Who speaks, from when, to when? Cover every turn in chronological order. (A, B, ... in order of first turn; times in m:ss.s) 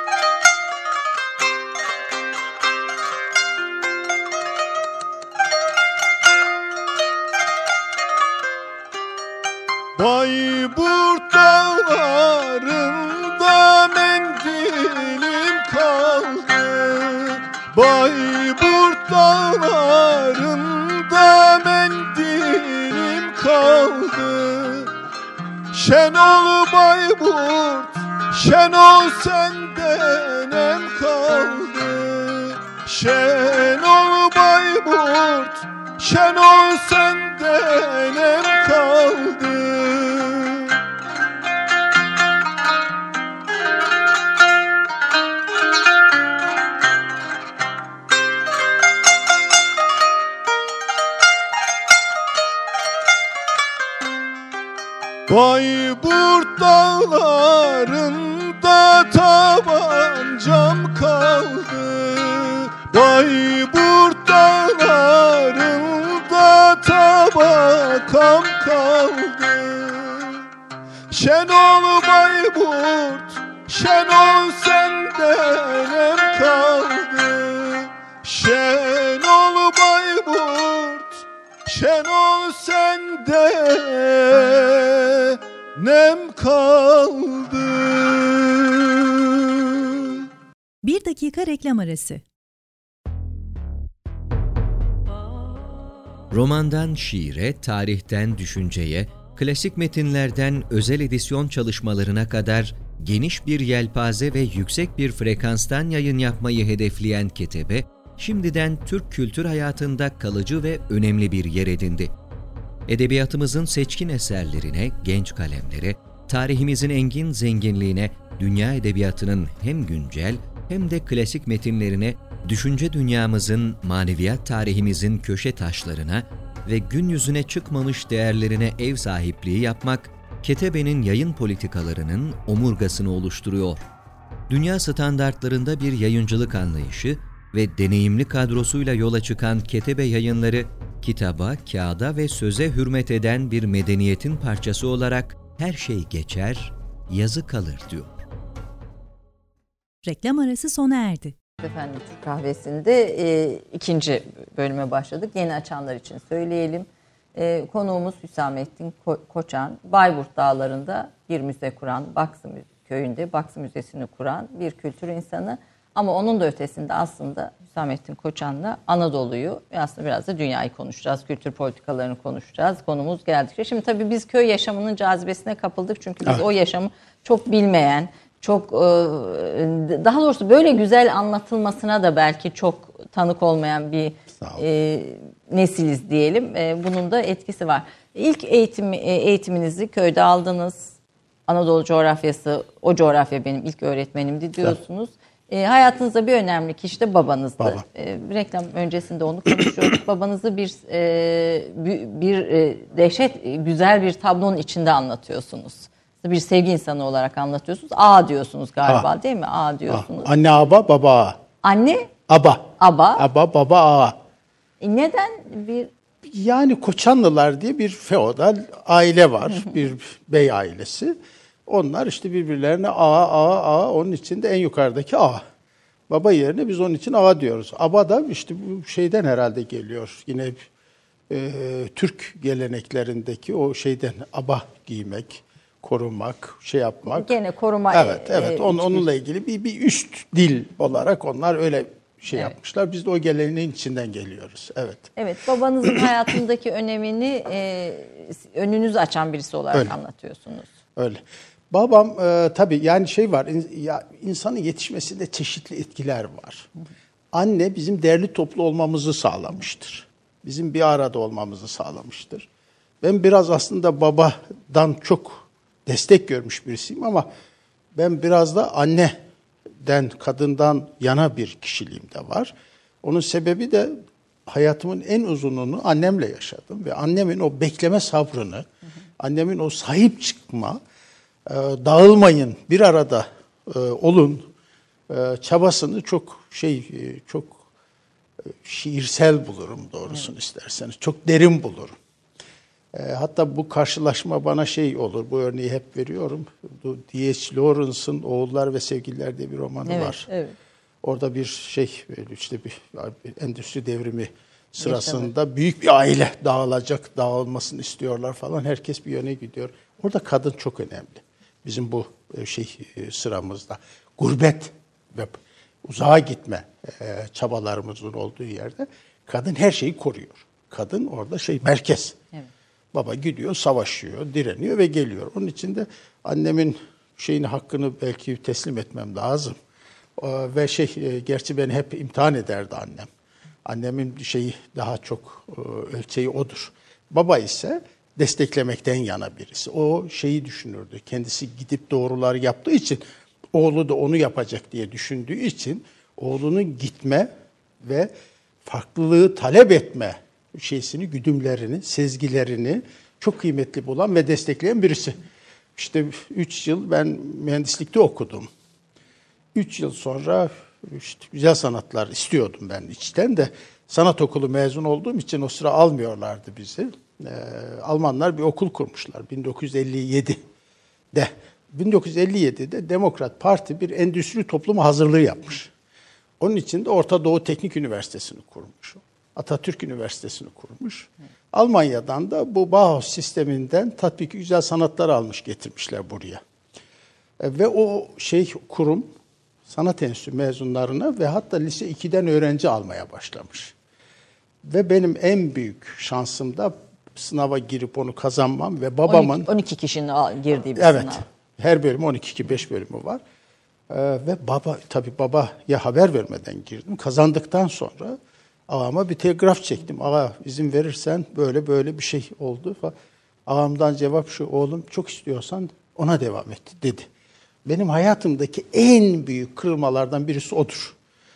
0:10.0-0:24.9 A
0:25.7-0:40.8 A
0:55.3-1:10.4 A
1:11.1-1:30.2 A
1:30.8-1:32.2 B
1:36.3-1:52.1 C
1:52.9-2:13.8 C
2:14.5-2:28.2 C
2:30.0-2:31.4 B
2:31.6-3:10.9 D
3:11.5-3:30.3 D
3:29.9-3:31.4 E
3:31.6-3:32.1 D
3:32.3-3:34.2 E
3:32.8-3:33.3 D
3:34.8-3:35.9 D
3:36.2-3:41.2 E
3:41.7-3:45.4 E
3:46.1-3:50.6 E
3:51.3-3:57.3 E
3:57.1-3:59.0 D
3:57.9-4:05.1 E
4:05.2-4:10.7 D
4:11.0-4:16.7 E
4:17.3-4:22.5 E
4:23.0-4:27.3 E
4:27.9-4:29.2 E
4:29.8-4:38.6 E
4:39.2-4:40.8 E
4:41.4-4:44.5 E
4:45.1-4:47.6 E
4:48.4-4:52.0 E
4:52.9-5:00.3 E
4:59.8-5:00.5 D
5:01.0-5:22.2 E
5:04.8-5:05.3 D
5:22.9-5:29.6 E
5:30.2-5:33.1 E
5:33.6-5:47.3 E
5:47.8-5:48.1 E
5:48.6-5:55.2 E
5:55.7-5:58.5 E
5:59.5-6:10.4 E
6:11.1-6:15.7 E
6:16.4-6:26.4 E
6:27.4-6:29.1 E
6:29.7-6:33.7 E
6:34.6-6:39.5 E
6:39.0-6:41.2 D
6:40.8-6:43.2 E
6:43.9-6:52.9 E
6:53.4-6:57.1 E
6:57.6-7:01.0 E